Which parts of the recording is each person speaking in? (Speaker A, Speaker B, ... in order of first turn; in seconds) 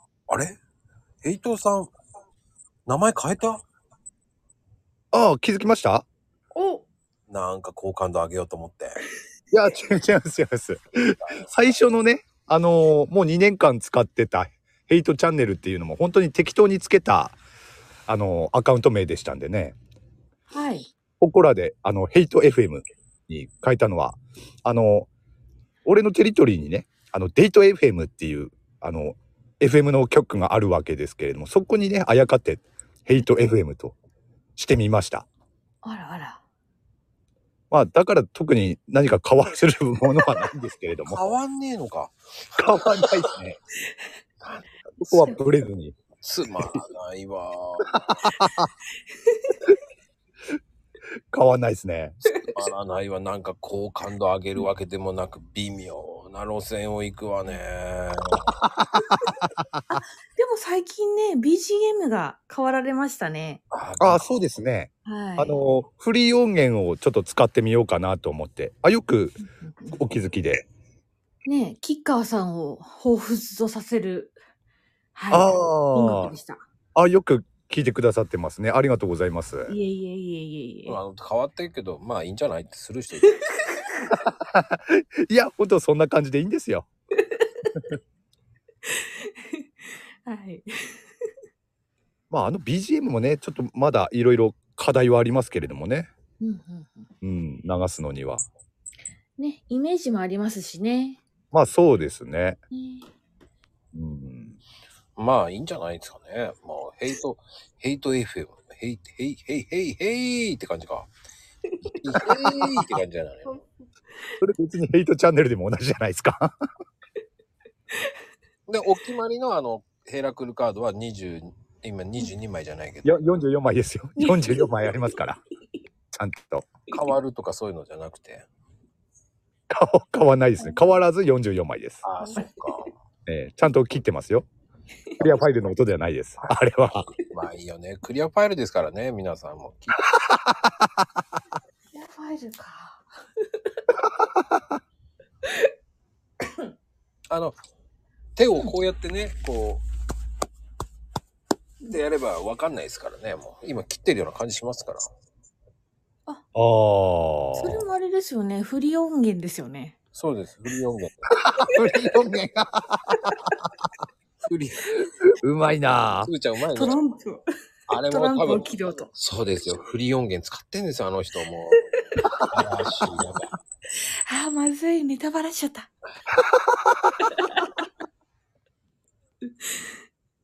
Speaker A: 0.3-0.5, 1.2-1.9, 2.9-3.6, 7.3-9.0, 41.1-42.6, 44.4-45.0, 46.2-47.9, 52.5-58.5, 63.7-64.3, 80.8-83.4, 105.2-111.1, 111.9-113.7, 118.7-123.2, 126.9-128.4, 132.0-132.9, 137.3-140.0, 147.3-147.5, 148.3-149.8, 151.9-155.1, 160.2-161.3, 164.4-164.9, 166.2-167.0, 167.9-171.8, 172.5-173.5
Speaker B: 5.1-6.0, 9.5-17.4, 18.1-19.8, 21.2-25.1, 25.9-34.0, 34.6-35.3, 37.7-41.4, 42.5-43.6, 45.0-46.0, 48.0-48.7, 51.3-52.2, 58.5-59.9, 64.0-70.7, 75.3-76.3, 76.9-79.7, 84.1-86.9, 92.3-96.1, 97.2-98.4, 101.5-102.6, 103.9-104.5, 114.4-116.5, 123.0-125.4, 126.1-126.7, 129.7-132.0, 133.3-134.4, 135.2-137.1, 140.2-141.2, 144.4-144.6, 156.5-157.8, 161.4-163.7, 165.4-166.3, 176.7-177.1
Speaker C: 6.5-6.8, 20.5-20.9, 35.8-36.4, 45.1-45.4, 49.2-49.5, 52.3-52.5, 59.9-63.6, 65.0-65.6, 69.6-70.0, 71.5-74.3, 75.2-76.6, 79.7-81.0, 87.3-87.7, 88.9-89.6, 90.2-91.0, 96.4-97.1, 99.4-101.2, 102.7-103.1, 124.2-125.2, 130.6-130.9, 132.2-132.7, 141.9-143.9, 157.6-159.9, 166.7-169.1, 174.3-175.9, 177.2-177.8